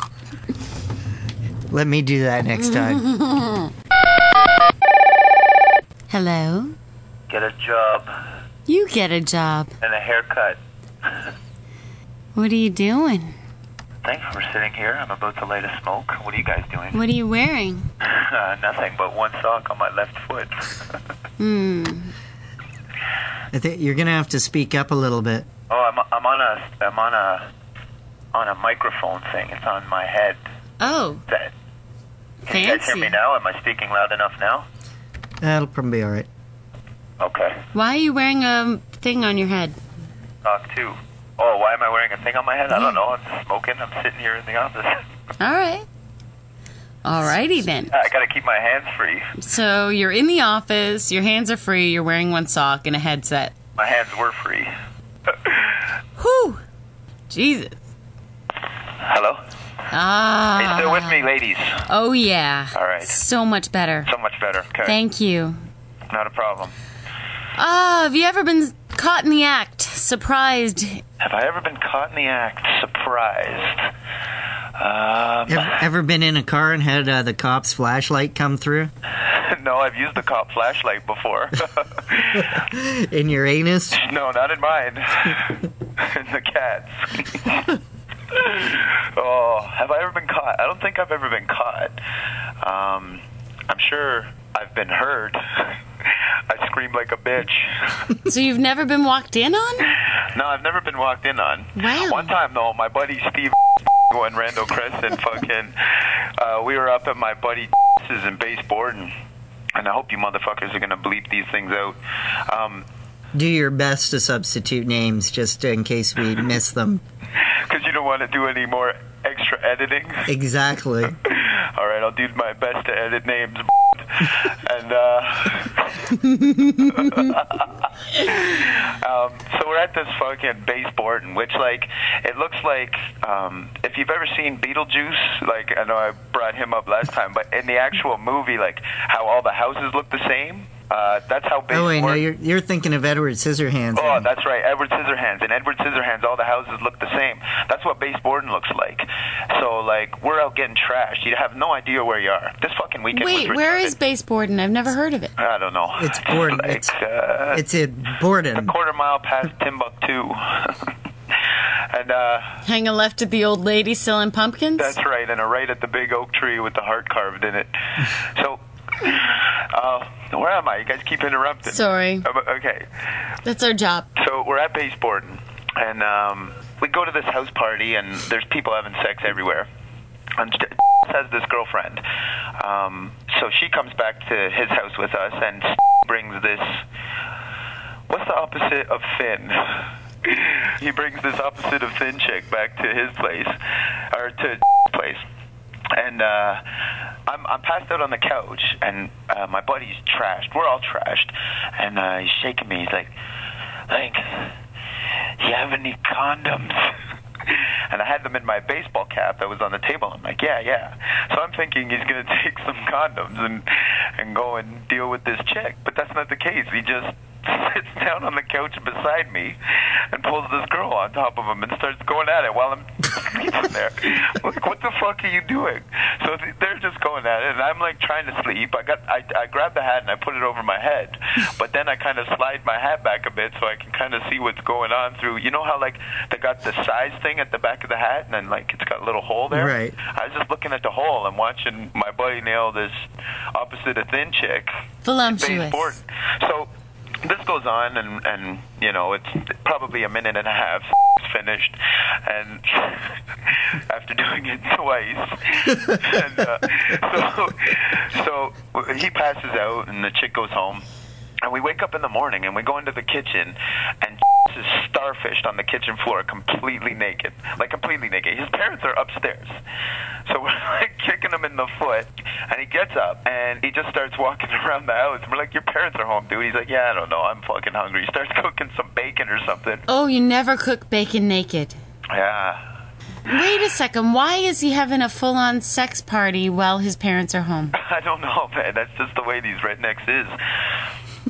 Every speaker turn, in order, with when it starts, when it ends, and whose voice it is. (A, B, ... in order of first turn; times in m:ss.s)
0:01.7-0:03.1 A
0:02.6-0:03.7 B
0:06.1-0:06.8 B
0:07.3-0:08.1 C
0:08.7-0:09.7 B
0:09.8-0:10.6 C
0:12.4-0:13.4 B
0:14.0-0:17.0 C
0:16.9-0:17.9 B
0:18.0-0:21.0 C
0:21.4-0:22.2 B
0:23.5-0:25.5 A
0:25.7-0:27.5 C
0:28.3-0:30.4 C
0:30.8-0:31.2 B
0:32.5-0:34.6 C
0:32.5-0:33.1 B
0:35.4-0:36.3 A
0:37.2-0:37.6 C
0:37.7-0:39.8 B
0:40.4-0:45.0 C
0:45.4-0:45.9 B
0:47.0-0:47.9 B
0:47.9-0:49.3 C
0:49.4-0:53.5 B
0:53.8-0:54.7 C
0:55.3-0:55.8 C
0:56.2-0:56.6 B
0:57.3-0:57.8 B
0:59.0-0:59.4 C
0:59.9-1:01.2 B
1:00.6-1:01.8 C
1:01.9-1:04.1 B
1:02.8-1:03.2 C
1:04.1-1:05.0 C
1:04.8-1:05.6 B
1:06.1-1:06.7 C
1:07.6-1:11.0 B
1:11.2-1:13.9 C
1:14.8-1:15.8 C
1:15.5-1:18.9 A
1:19.2-1:22.6 C
1:22.4-1:24.0 A
1:23.9-1:27.8 C
1:28.3-1:32.0 C
1:32.6-1:38.1 C
1:38.2-1:40.0 B
1:40.2-1:49.1 C
1:41.8-1:42.3 B
1:49.8-1:52.9 C
1:53.3-1:57.0 A
1:57.4-2:00.3 C
2:00.3-2:01.2 A
2:01.2-2:22.2 C
2:06.3-2:07.3 B
2:21.7-2:24.3 A
2:24.0-2:33.9 C
2:33.1-2:35.3 B
2:35.4-2:37.6 C
2:36.0-2:36.9 A
2:37.5-2:38.7 A
2:38.6-2:40.9 C
2:41.9-2:42.6 C
2:42.6-2:45.0 B
2:44.8-2:52.9 C
2:51.7-2:52.3 B
2:53.4-2:54.1 B
2:54.2-2:59.7 C
3:00.4-3:02.0 C
3:02.6-3:06.8 C
3:08.1-3:13.6 C
3:14.1-3:15.2 C
3:15.9-3:16.6 C
3:17.3-3:23.1 C
3:23.9-3:24.6 C
3:25.4-4:03.0 C
3:59.5-4:00.0 A
4:03.5-4:04.7 C
4:05.0-4:06.0 B
4:05.3-4:06.7 C
4:07.2-4:20.8 C
4:21.4-4:29.6 C
4:30.3-4:39.8 C
4:39.9-4:41.8 B
4:42.1-4:42.7 C
4:43.3-4:47.8 B
4:47.8-4:50.4 C